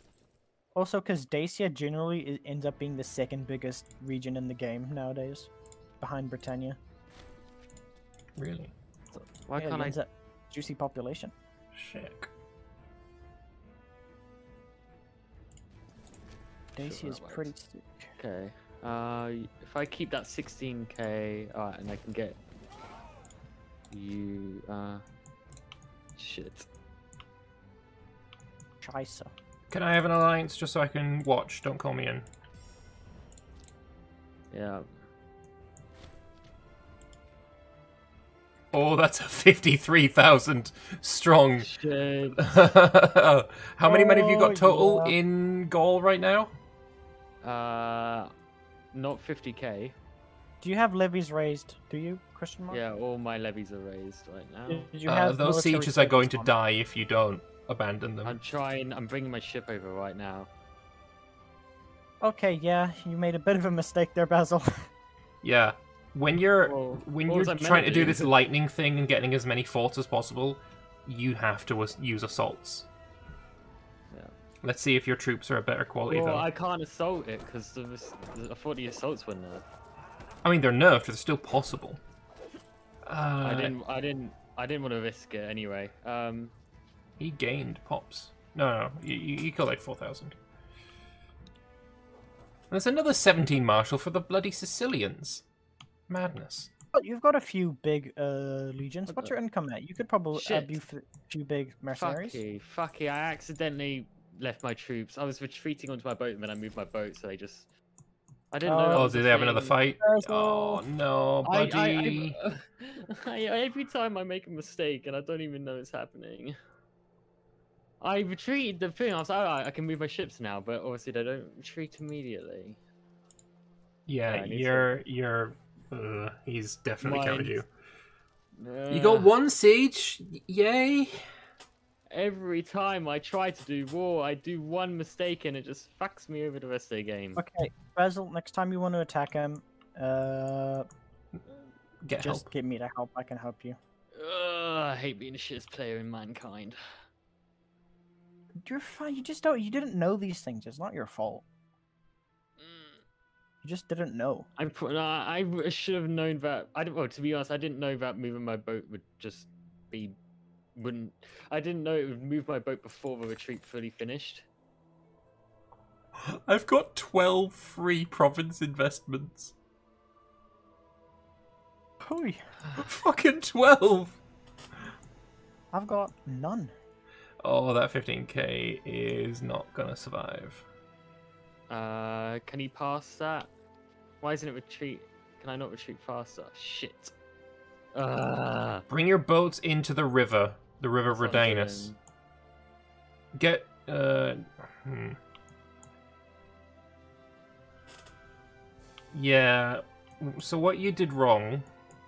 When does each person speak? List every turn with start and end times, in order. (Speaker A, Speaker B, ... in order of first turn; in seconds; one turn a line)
Speaker A: 0.7-6.8
Speaker B: 8.3-8.7
Speaker C: 9.3-10.0
Speaker A: 9.6-11.3
Speaker B: 11.7-12.3
Speaker A: 16.8-18.1
Speaker C: 16.8-17.5
Speaker C: 18.2-22.4
Speaker C: 23.9-25.0
Speaker C: 26.2-26.7
Speaker A: 28.8-29.3
Speaker B: 29.7-32.2
Speaker C: 34.5-35.1
Speaker B: 38.7-41.7
Speaker C: 41.6-42.6
Speaker B: 42.4-46.5
Speaker A: 43.8-45.1
Speaker C: 47.4-48.3
Speaker C: 48.9-50.0
Speaker A: 50.6-52.8
Speaker C: 52.7-54.9
Speaker A: 54.7-56.5
Speaker B: 55.1-58.4
Speaker C: 58.2-60.5
Speaker A: 62.2-64.9
Speaker B: 65.4-72.9
Speaker C: 66.7-68.3
Speaker B: 74.6-76.5
Speaker C: 76.1-79.7
Speaker B: 80.4-82.0
Speaker B: 83.0-83.7
Speaker C: 83.4-86.5
Speaker B: 87.2-90.3
Speaker B: 92.7-95.4
Speaker B: 96.1-96.7
Speaker A: 96.9-102.4
Speaker C: 99.1-99.3
Speaker C: 100.3-100.8
Speaker C: 101.9-107.7
Speaker C: 108.5-109.8
Speaker A: 108.6-109.1
Speaker B: 108.9-112.4
Speaker A: 110.0-110.8
Speaker C: 111.4-116.5
Speaker C: 118.0-122.8
Speaker B: 124.1-127.7
Speaker C: 124.2-124.9
Speaker C: 127.0-127.5
Speaker C: 128.6-129.3
Speaker B: 128.9-131.2
Speaker C: 132.1-137.4
Speaker A: 137.4-140.9
Speaker B: 142.0-142.5
Speaker A: 142.2-143.8
Speaker C: 144.1-146.8
Speaker A: 148.6-151.4
Speaker C: 152.6-153.0
Speaker A: 153.6-154.5
Speaker C: 154.6-160.2
Speaker C: 160.8-164.4
Speaker B: 166.2-169.5
Speaker A: 172.0-172.4
Speaker B: 172.8-174.2
Speaker A: 175.7-176.7
Speaker B: 177.4-180.6
Speaker C: 181.7-183.5
Speaker C: 184.2-187.1
Speaker C: 187.9-188.8
Speaker B: 188.9-191.9
Speaker C: 191.1-192.0
Speaker B: 193.3-195.2
Speaker B: 199.1-201.7